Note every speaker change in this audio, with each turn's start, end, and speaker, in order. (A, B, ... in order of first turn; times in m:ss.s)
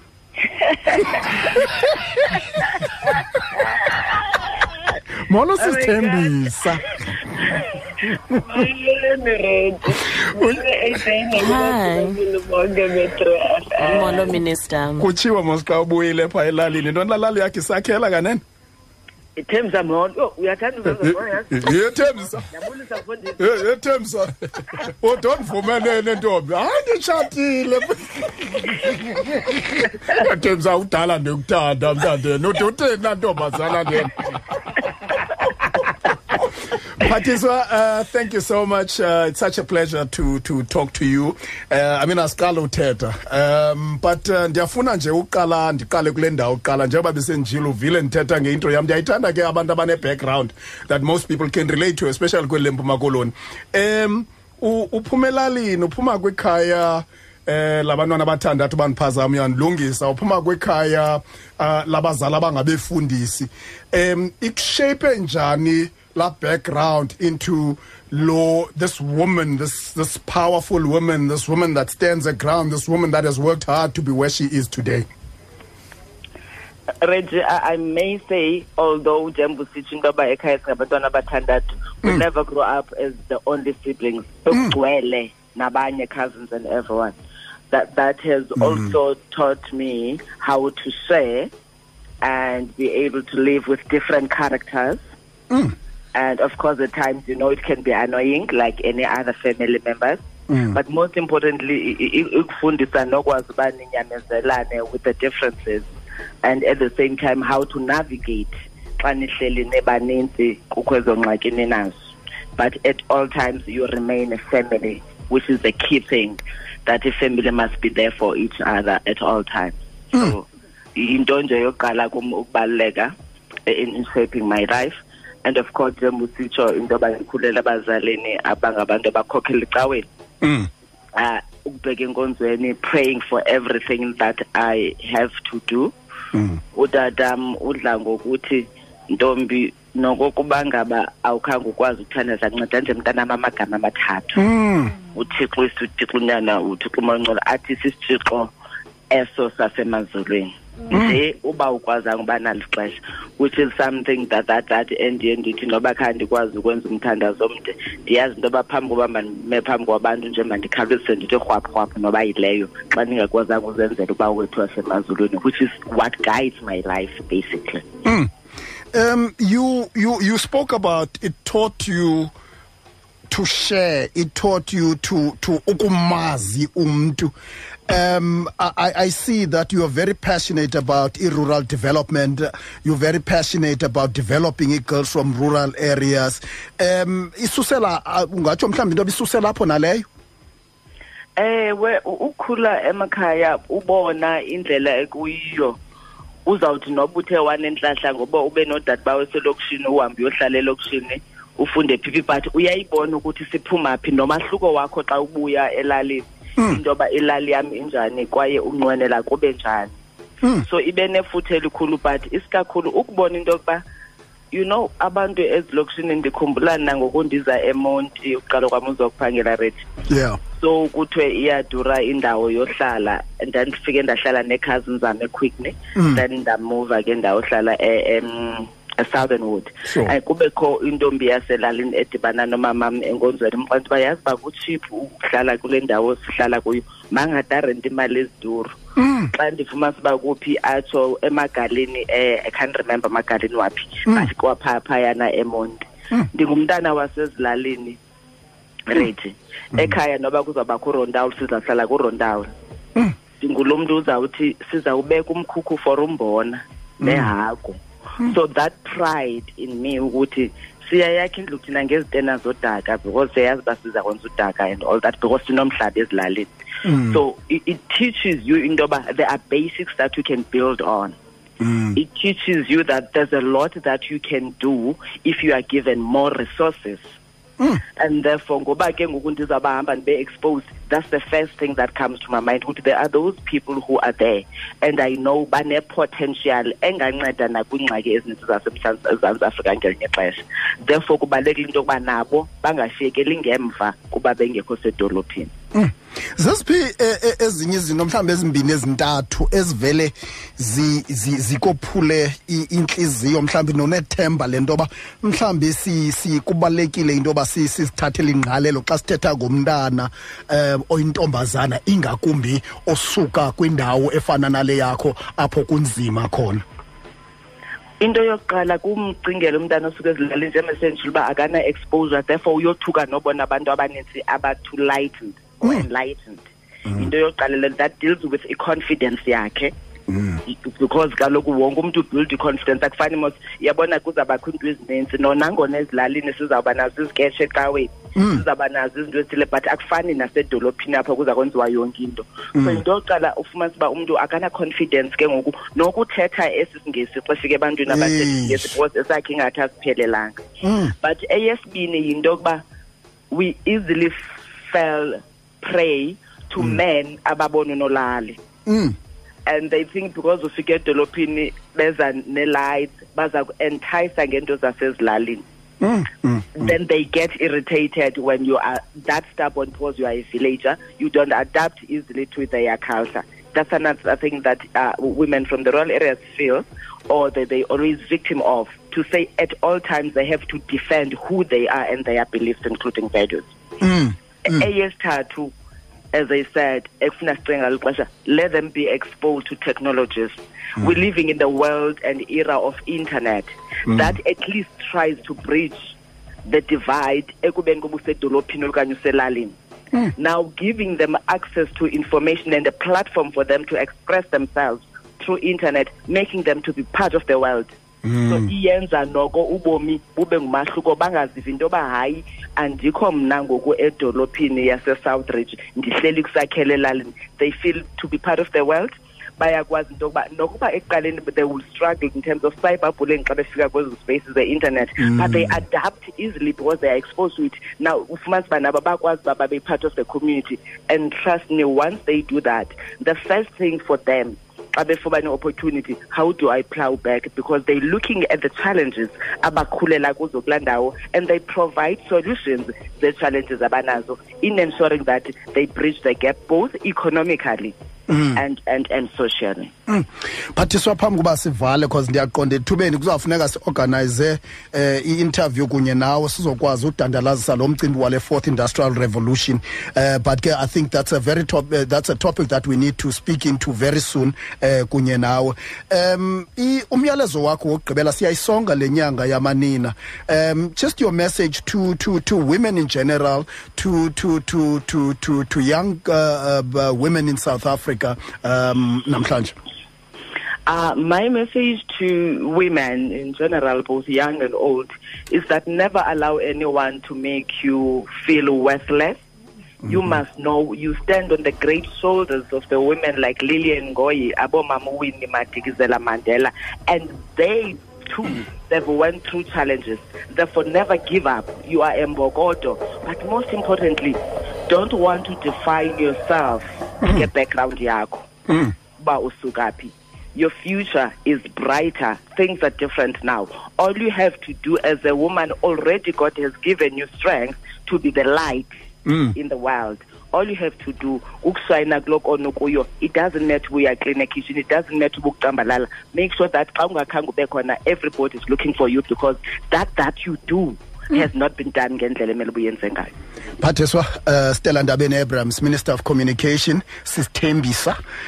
0:00.6-0:01.4 A
0:05.2-0:06.9 B
0:05.6-0:06.4 A
0:07.4-0:07.6 A
0:08.3-0:14.4 A
0:11.3-0:12.2 C
0:13.8-0:15.1 C
0:15.0-0:18.4 B
0:19.4-0:23.6 A
0:21.0-0:22.4 B
0:23.4-0:34.3 B
0:35.4-1:15.1 B
1:17.0-1:27.2 A
1:27.7-1:31.5 A
1:28.6-1:28.9 B
1:32.2-1:35.0 A
1:35.5-1:35.7 B
1:36.1-1:40.2 A
1:40.5-1:40.8 B
1:40.7-1:45.9 A
1:46.4-1:52.0 A
1:52.6-2:03.1 A
2:03.6-2:10.0 A
2:10.4-2:10.7 B
2:11.1-2:15.9 A
2:16.3-2:16.6 B
2:16.7-2:24.4 A
2:24.3-2:24.9 B
2:25.1-2:28.5 A
2:29.1-2:47.8 A
2:30.9-2:31.2 B
2:48.0-2:48.3 B
2:48.9-2:52.3 B
2:53.3-2:57.3 B
2:57.9-3:10.0 B
3:11.4-3:15.8 A
3:16.4-3:29.9 A
3:30.6-3:33.8 A
3:34.5-3:39.8 A
3:40.1-3:40.4 B
3:40.6-3:58.7 A
3:46.0-3:46.2 B
3:49.8-3:50.1 B
3:59.0-3:59.3 B
3:59.3-4:08.0 A
4:08.9-4:12.5 A
4:13.4-4:31.2 A
4:17.0-4:17.3 B
4:26.8-4:27.2 B
4:31.6-4:32.0 B
4:31.9-4:37.0 A
4:38.0-4:55.5 A
4:55.7-5:16.6 B
5:18.0-5:29.7 A
5:30.1-5:30.4 B
5:30.4-5:50.4 A
5:38.2-5:38.4 B
5:42.5-5:42.8 B
5:47.9-5:48.8 B
5:50.6-5:50.9 B
5:51.0-5:52.6 A
5:53.3-5:58.4 A
5:58.6-5:59.0 B
5:59.4-6:05.4 A
6:05.8-6:06.7 B
6:06.6-6:23.5 A
6:23.8-6:24.6 B
6:24.4-6:25.5 A
6:26.1-6:35.9 A
6:33.9-6:34.2 B
6:36.4-6:39.6 A
6:40.2-7:27.7 A
6:48.0-6:48.5 B
7:05.0-7:05.6 B
7:28.1-7:28.4 B
7:28.3-7:29.7 A
7:29.9-7:59.6 B
8:00.6-8:09.2 A
8:09.8-8:28.3 A
8:09.9-8:10.2 B
8:28.5-8:28.7 B
8:29.0-8:38.7 A
8:39.0-8:39.3 B
8:39.3-8:53.1 A
8:53.6-8:58.0 B